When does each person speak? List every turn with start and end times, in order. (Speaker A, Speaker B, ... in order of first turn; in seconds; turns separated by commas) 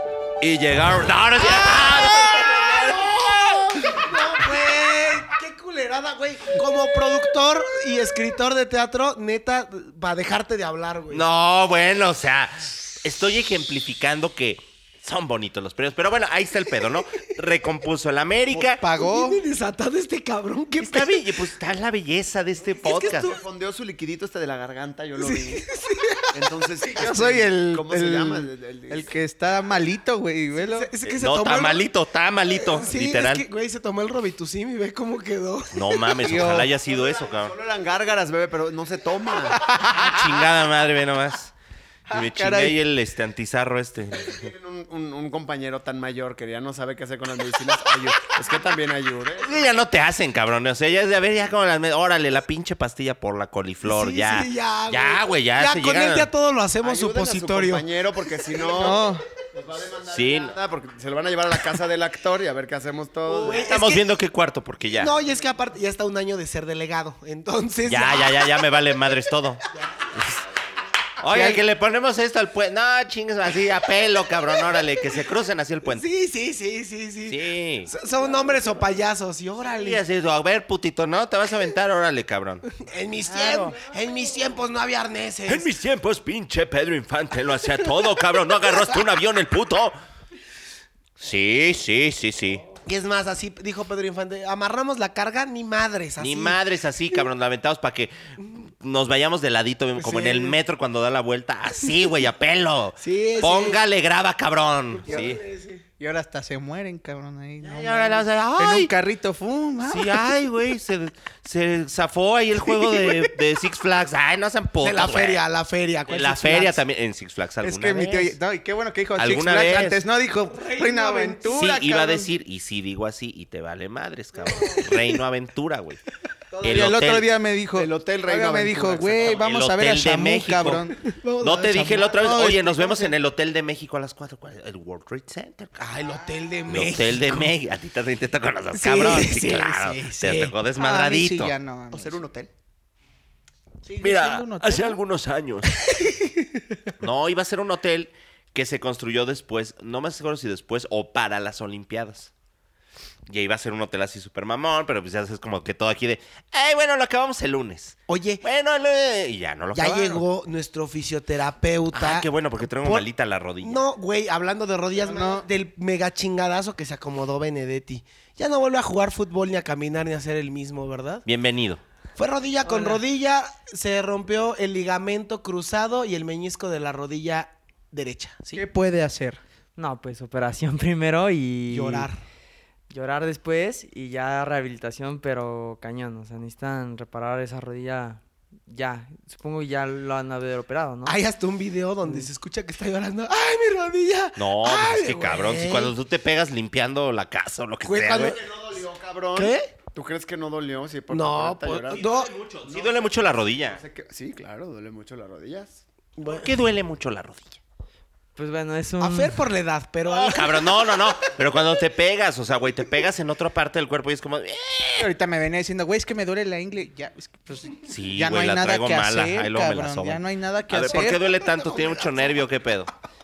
Speaker A: 0.4-4.0, Speaker B: 1.4-11.2, Speaker A: 11.1-18.8, Speaker B: 18.6-21.4, Speaker C: 18.6-19.4, Speaker A: 20.8-23.3, Speaker B: 22.8-23.3, Speaker D: 22.9-25.6, Speaker B: 25.2-26.2, Speaker D: 26.3-29.1, Speaker C: 26.9-30.9, Speaker B: 30.6-31.9, Speaker A: 31.1-33.5, Speaker B: 32.5-36.2, Speaker A: 35.7-37.5, Speaker C: 36.2-36.7, Speaker D: 36.5-39.6, Speaker C: 39.5-40.2, Speaker A: 39.9-41.5, Speaker C: 42.1-42.8, Speaker A: 42.1-44.4, Speaker D: 44.2-49.7, Speaker A: 49.4-56.3, Speaker B: 53.9-57.9, Speaker D: 56.8-63.7, Speaker C: 58.7-59.2, Speaker A: 60.1-60.5, Speaker B: 63.3-64.1, Speaker A: 63.5-65.1, Speaker B: 65.0-68.7, Speaker A: 67.9-69.6, Speaker A: 70.2-70.4, Speaker A: 71.2-76.1, Speaker C: 71.3-71.6, Speaker B: 75.8-80.0, Speaker A: 77.3-77.9, Speaker A: 79.7-82.8, Speaker B: 82.8-85.7, Speaker A: 85.5-90.0, Speaker A: 91.2-92.7, Speaker B: 92.8-96.6, Speaker A: 96.2-105.4, Speaker B: 100.0-100.6, Speaker B: 103.0-103.8, Speaker B: 104.9-105.8, Speaker C: 106.0-110.2, Speaker A: 107.6-108.9, Speaker A: 109.8-115.4, Speaker B: 112.7-113.3, Speaker B: 114.8-116.8, Speaker A: 116.1-118.4, Speaker C: 117.6-122.3, Speaker A: 119.2-120.0, Speaker B: 120.5-121.7, Speaker A: 121.6-126.0, Speaker B: 124.4-125.0, Speaker C: 126.5-131.1, Speaker A: 126.6-127.3, Speaker D: 127.8-129.4, Speaker A: 129.2-130.8, Speaker B: 131.1-132.1, Speaker A: 131.4-135.8, Speaker C: 131.9-133.1, Speaker B: 135.8-137.5, Speaker C: 136.1-136.5, Speaker A: 136.7-141.5, Speaker B: 138.8-140.5, Speaker C: 140.8-142.2, Speaker D: 141.9-142.5, Speaker C: 143.8-145.0, Speaker A: 144.0-145.7, Speaker B: 145.8-146.8, Speaker A: 147.0-152.3, Speaker A: 153.3-160.2, Speaker B: 158.1-158.4, Speaker B: 159.7-162.3, Speaker A: 161.9-163.8, Speaker B: 162.8-163.1, Speaker B: 163.6-171.2, Speaker C: 165.0-165.5, Speaker A: 171.3-171.8, Speaker B: 172.2-178.6, Speaker E: 172.7-173.0, Speaker C: 178.5-179.4, Speaker E: 179.8-182.1, Speaker B: 181.7-182.2, Speaker E: 182.9-191.2, Speaker B: 191.1-195.9, Speaker A: 194.4-198.4, Speaker B: 197.8-198.4, Speaker D: 198.1-202.1, Speaker B: 199.3-199.7, Speaker B: 201.1-202.3, Speaker A: 201.9-203.8, Speaker D: 202.6-205.8, Speaker B: 206.2-206.5, Speaker A: 206.3-207.6, Speaker E: 208.4-209.4, Speaker B: 209.0-211.0, Speaker A: 210.1-215.1, Speaker C: 215.0-221.2, Speaker A: 217.9-222.9